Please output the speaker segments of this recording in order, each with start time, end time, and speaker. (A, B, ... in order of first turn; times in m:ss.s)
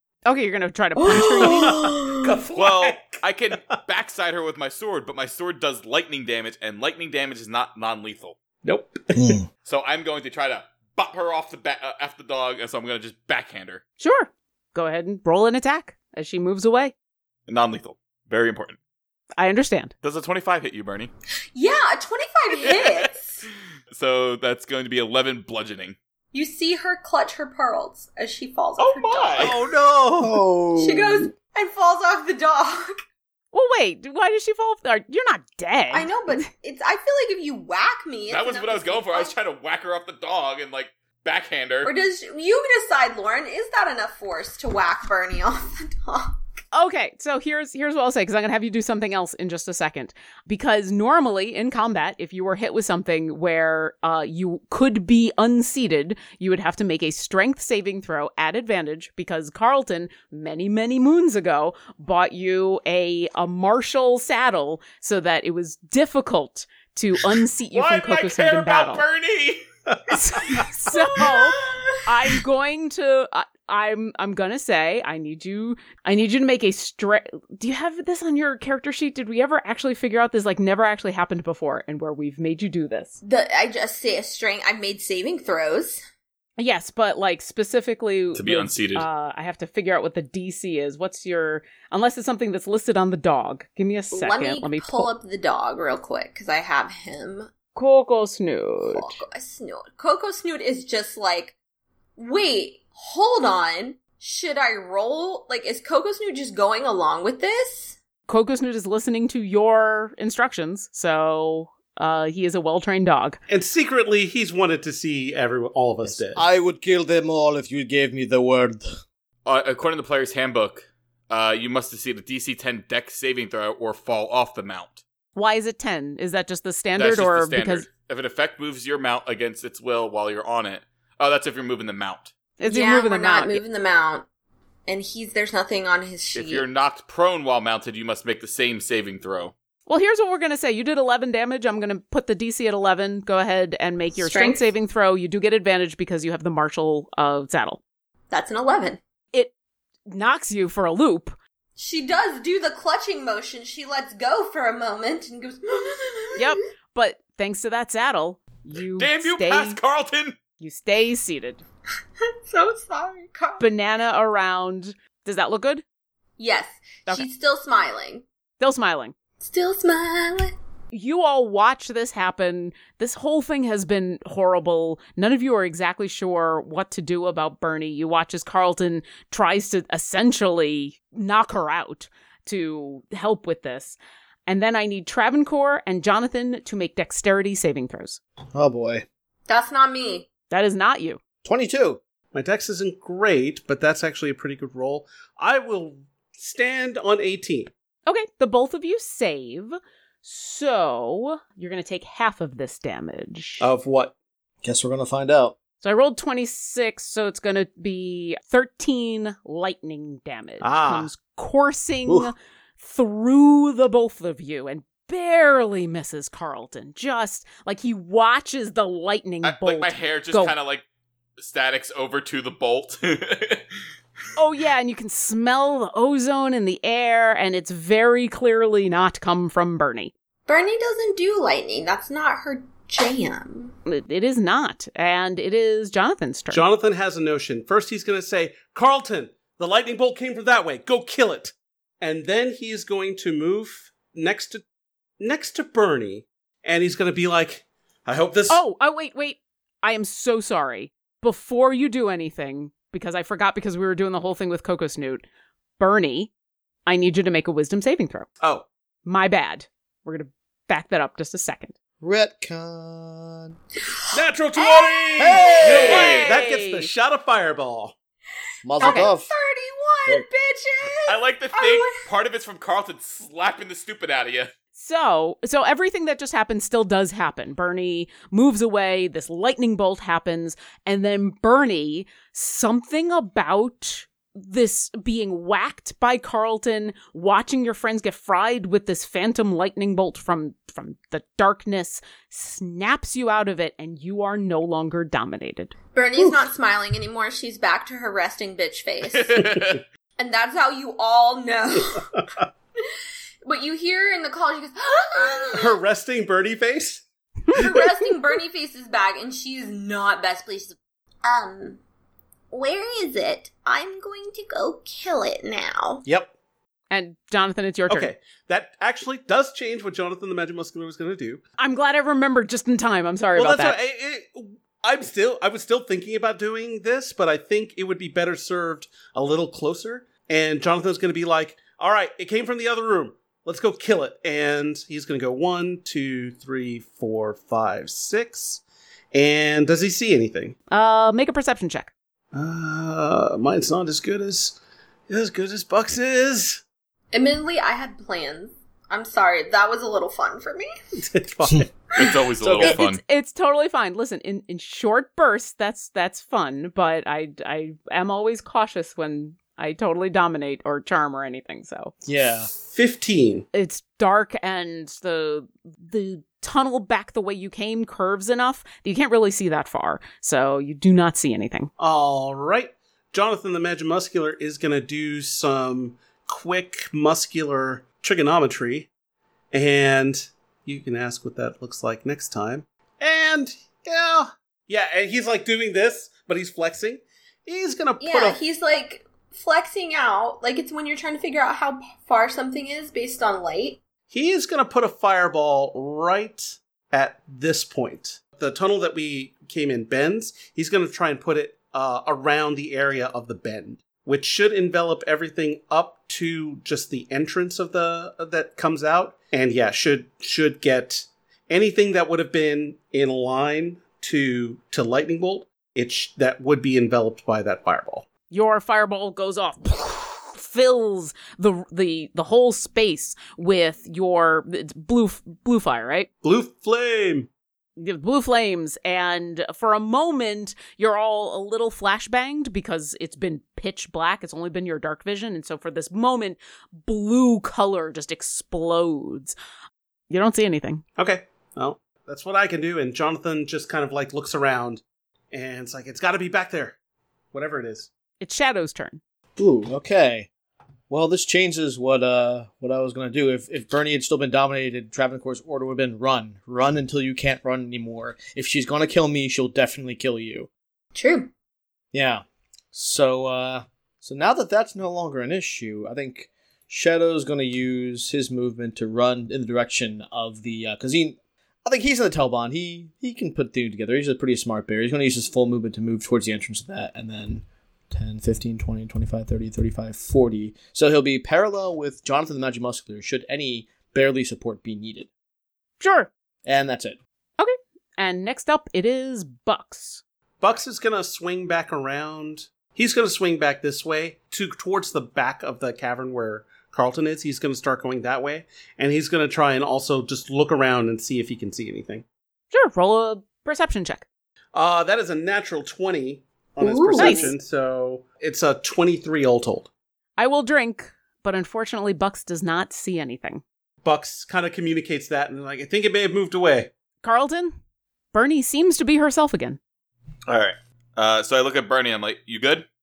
0:00.2-0:01.7 A
0:01.0-0:02.4 B
0:01.3-0:03.7 C
0:02.5-0:08.4 D
0:08.6-0:09.4 C
0:09.1-0:09.4 E
0:09.6-0:13.8 D
0:14.0-0:16.9 A
0:17.5-0:18.8 D
0:19.4-0:19.9 A
0:20.0-0:21.1 D
0:21.5-0:23.4 B
0:22.6-0:23.1 D
0:23.9-0:26.0 D
0:26.3-0:29.5 B
0:28.8-0:29.5 D
0:29.4-0:30.4 C
0:30.2-0:31.3 E
0:30.8-0:32.9 B
0:33.5-0:36.1 A
0:35.9-0:39.3 B
0:38.3-0:41.9 D
0:41.8-0:46.4 B
0:46.7-1:09.0 A
1:07.7-1:09.6 D
1:09.9-1:10.6 C
1:10.1-1:23.2 A
1:11.2-1:11.8 B
1:23.2-1:26.0 B
1:26.6-1:35.1 A
1:28.3-1:29.1 D
1:34.1-1:37.5 B
1:37.7-1:39.2 A
1:38.9-1:41.5 B
1:42.2-1:48.0 B
1:48.3-1:53.4 A
1:53.5-1:56.4 C
1:56.0-1:59.0 E
1:59.4-2:05.0 D
2:05.3-2:07.8 A
2:07.0-2:12.3 D
2:12.6-2:13.6 A
2:12.6-2:14.2 B
2:14.9-2:16.6 B
2:16.3-2:19.5 D
2:19.9-2:27.8 A
2:24.1-2:24.7 B
2:28.3-2:29.0 B
2:30.1-2:31.4 A
2:31.8-2:36.4 B
2:36.4-2:39.8 A
2:39.0-2:40.4 D
2:40.6-2:41.6 A
2:42.4-2:43.6 B
2:43.6-2:45.8 A
2:46.4-2:48.2 B
2:48.6-2:49.1 A
2:49.4-2:50.5 B
2:50.9-3:08.2 A
3:08.5-3:09.0 E
3:09.5-3:10.3 B
3:10.5-3:11.2 A
3:11.4-3:12.0 E
3:12.3-3:17.7 C
3:18.1-3:23.7 A
3:23.6-3:24.1 C
3:24.6-3:25.6 E
3:25.8-3:40.5 A
3:30.6-3:31.1 C
3:39.4-3:40.8 D
3:41.4-3:43.6 D
3:44.4-3:50.1 A
3:50.5-3:53.7 B
3:53.8-3:56.6 A
3:56.5-4:04.6 C
4:05.2-4:08.6 C
4:08.5-4:15.2 A
4:15.8-4:16.3 A
4:16.8-4:18.3 A
4:19.0-4:21.7 A
4:22.0-4:23.6 E
4:24.1-4:27.9 C
4:24.5-4:26.3 B
4:25.2-4:26.2 E
4:25.7-4:26.9 A
4:28.6-4:29.3 E
4:28.8-4:32.0 B
4:28.8-4:29.1 A
4:31.1-4:34.5 D
4:34.8-4:55.7 A
4:55.9-4:59.5 B
4:59.1-4:59.8 D
5:00.2-5:02.0 B
5:02.0-5:02.4 C
5:03.4-5:05.8 B
5:05.5-5:07.6 C
5:07.5-5:11.8 B
5:12.5-5:16.0 B
5:16.0-5:16.3 C
5:16.9-5:18.1 A
5:17.9-5:21.4 C
5:21.6-5:23.8 A
5:23.3-5:38.6 C
5:39.1-5:40.6 C
5:40.7-5:41.9 A
5:42.3-5:44.6 C
5:45.1-5:46.6 C
5:47.1-5:50.7 B
5:51.0-5:51.7 C
5:52.0-5:53.0 D
5:52.4-5:52.8 E
5:52.6-6:01.9 A
6:02.0-6:02.5 E
6:02.5-6:03.4 C
6:03.5-6:11.7 A
6:11.8-6:18.9 C
6:19.5-6:28.4 C
6:28.0-6:33.8 B
6:34.1-6:58.1 C
6:58.3-7:06.1 A
7:06.2-7:07.3 C
7:07.8-7:19.3 A
7:20.1-7:20.8 A
7:21.0-7:24.8 C
7:25.3-7:26.8 C
7:27.3-7:27.9 C
7:28.2-7:29.0 A
7:29.4-7:30.3 E
7:30.9-7:40.5 E
7:40.9-7:41.3 B
7:41.9-8:05.1 E
8:05.8-8:06.1 A
8:06.4-8:07.0 E
8:07.4-8:10.0 A
8:10.4-8:22.0 C
8:22.5-8:24.0 A
8:24.5-8:29.7 C
8:26.6-8:27.4 B
8:27.0-8:27.3 A
8:30.2-8:33.4 A
8:33.8-8:36.7 C
8:37.0-8:37.6 A
8:38.1-8:39.6 A
8:40.3-8:42.6 D